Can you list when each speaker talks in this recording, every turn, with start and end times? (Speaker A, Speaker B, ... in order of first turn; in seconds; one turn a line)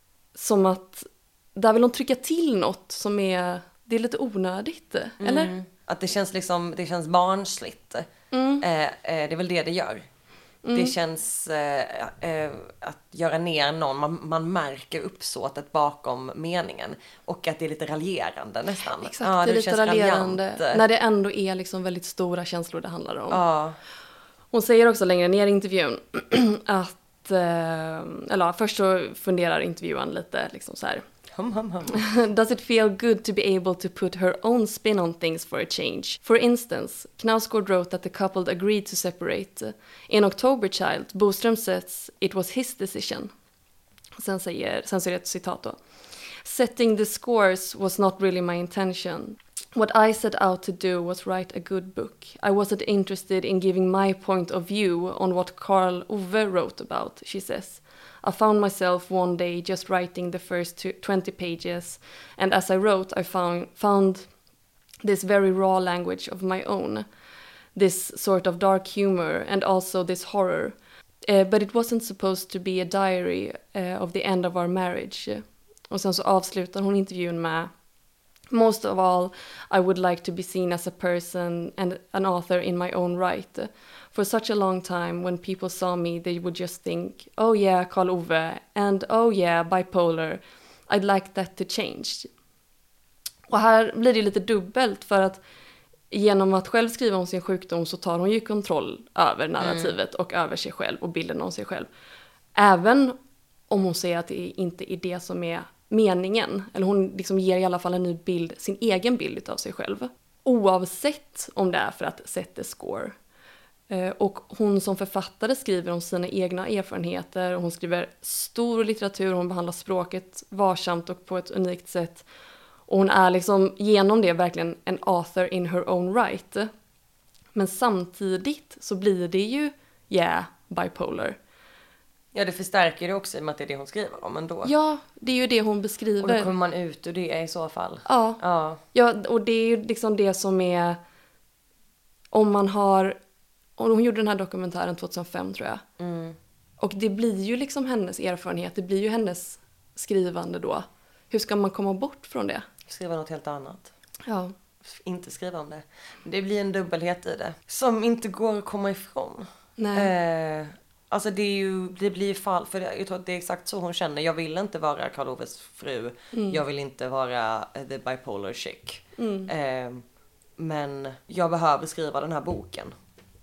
Speaker A: 0.3-5.5
Speaker B: 5.2-8.1
Speaker A: 8.3-8.6
Speaker B: 8.6-10.1
Speaker A: 10.6-10.9
Speaker B: 10.7-20.8
Speaker A: 19.0-23.4
Speaker B: 23.3-23.8
Speaker A: 24.5-31.0
Speaker B: 31.3-32.0
Speaker A: 31.9-43.3
Speaker A: 44.2-45.8
Speaker A: 46.4-64.3
Speaker A: 65.0-67.0
Speaker A: 67.7-77.7
Speaker A: 78.5-92.3
Speaker A: 93.5-95.4
Speaker A: 96.1-101.9
Speaker B: 99.6-99.9
Speaker A: 102.5-103.2
Speaker A: 103.7-113.2
Speaker A: 113.9-122.3
Speaker A: 122.9-126.7
Speaker A: 127.5-131.4
Speaker B: 132.3-134.7
Speaker A: 134.6-136.5
Speaker B: 136.2-138.8
Speaker A: 138.1-138.4
Speaker A: 138.9-141.0
Speaker A: 142.3-143.2
Speaker A: 143.8-145.8
Speaker B: 146.0-146.4
Speaker A: 146.8-152.6
Speaker B: 152.9-153.9
Speaker A: 154.2-154.5
Speaker B: 154.8-170.0
Speaker A: 159.8-160.1
Speaker A: 166.3-166.6
Speaker A: 169.2-169.5
Speaker B: 170.6-172.9